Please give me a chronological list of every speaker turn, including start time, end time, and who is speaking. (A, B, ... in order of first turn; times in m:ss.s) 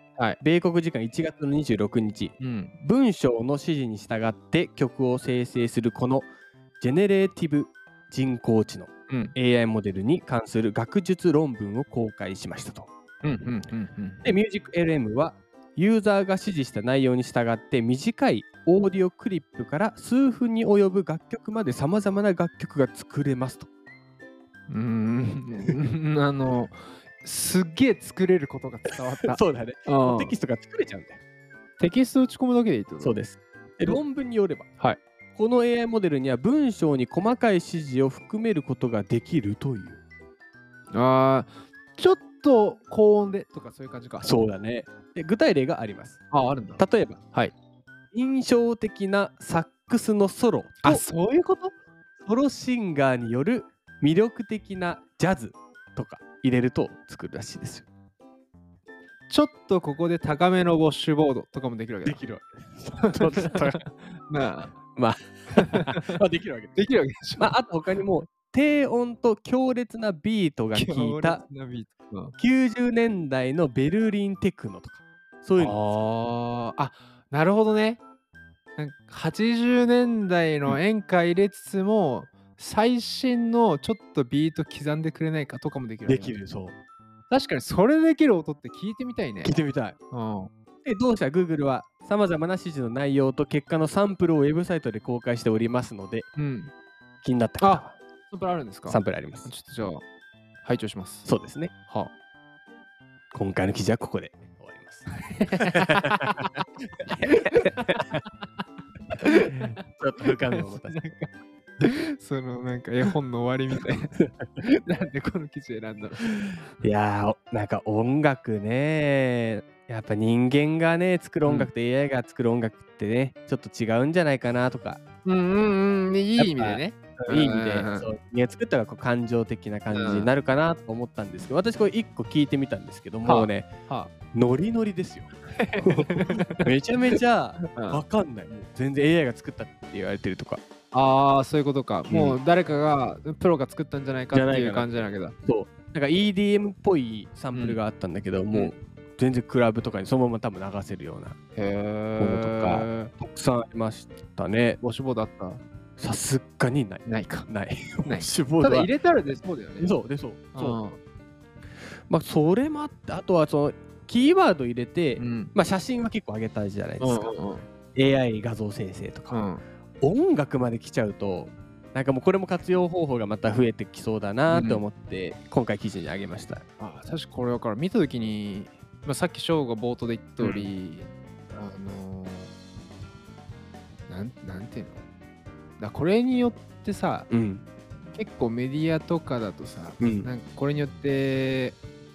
0:00.4-0:06.3 A
0:02.4-0:02.8 B
0:06.8-0:12.9 A
0:09.1-0:09.3 B
0:13.2-0:14.3 B
0:14.2-0:23.7 A
0:24.7-0:30.3 B
0:28.9-0:31.2 A
0:31.8-0:33.2 B
0:33.0-0:34.7 A
0:35.4-0:40.0 A
0:40.9-0:44.4 B
0:44.2-0:46.2 A
0:46.3-0:47.5 B
0:46.8-0:47.2 A
0:48.1-0:51.0 A
0:50.8-0:51.7 B
0:52.2-0:57.8 A
0:59.3-1:02.2 B
1:02.0-1:03.8 A
1:03.1-1:04.7 B
1:05.0-1:06.9 A
1:05.5-1:06.2 B
1:06.7-1:07.5 B
1:07.4-1:11.4 A
1:10.7-1:12.3 B
1:12.4-1:16.0 A
1:15.6-1:18.0 B
1:18.8-1:26.4 B
1:26.0-1:26.7 A
1:27.3-1:29.6 B
1:29.4-1:30.0 A
1:30.1-1:30.5 B
1:30.8-1:36.3 A
1:36.4-1:36.7 B
1:37.2-1:37.9 A
1:37.6-1:40.0 B
1:38.8-1:39.5 A
1:40.6-1:41.3 B
1:41.2-1:41.7 A
1:41.8-1:42.1 B
1:43.3-1:46.5 A
1:45.1-1:46.5 B
1:47.1-1:48.0 A
1:47.1-1:48.0 B
1:49.2-1:56.3 B
1:49.5-1:51.0 A
1:56.8-2:05.0 A
2:01.4-2:01.7 B
2:05.2-2:08.1 B
2:06.4-2:13.7 A
2:09.9-2:10.3 B
2:13.2-2:14.1 B
2:14.3-2:15.3 A
2:15.5-2:16.6 B
2:15.8-2:20.6 A
2:17.8-2:18.0 B
2:20.9-2:25.4 B
2:22.1-2:22.4 A
2:24.3-2:31.4 A
2:27.5-2:27.8 B
2:31.5-2:33.1 B
2:32.2-2:34.8 A
2:34.8-2:35.6 B
2:36.0-2:38.9 A
2:37.0-2:37.5 B
2:38.0-2:39.9 B
2:39.8-2:40.8 A
2:40.5-2:41.0 B
2:42.1-2:47.3 A
2:45.2-2:45.5 B
2:47.0-2:47.7 B
2:47.9-2:49.4 A
2:49.3-2:49.6 B
2:50.0-2:56.6 A
2:54.5-2:54.8 B
2:56.8-3:02.5 B
3:00.4-3:00.7 A
3:04.1-3:05.0 B
3:05.8-3:07.3 B
3:07.3-3:07.6 A
3:08.1-3:11.8 B
3:10.0-3:10.3 A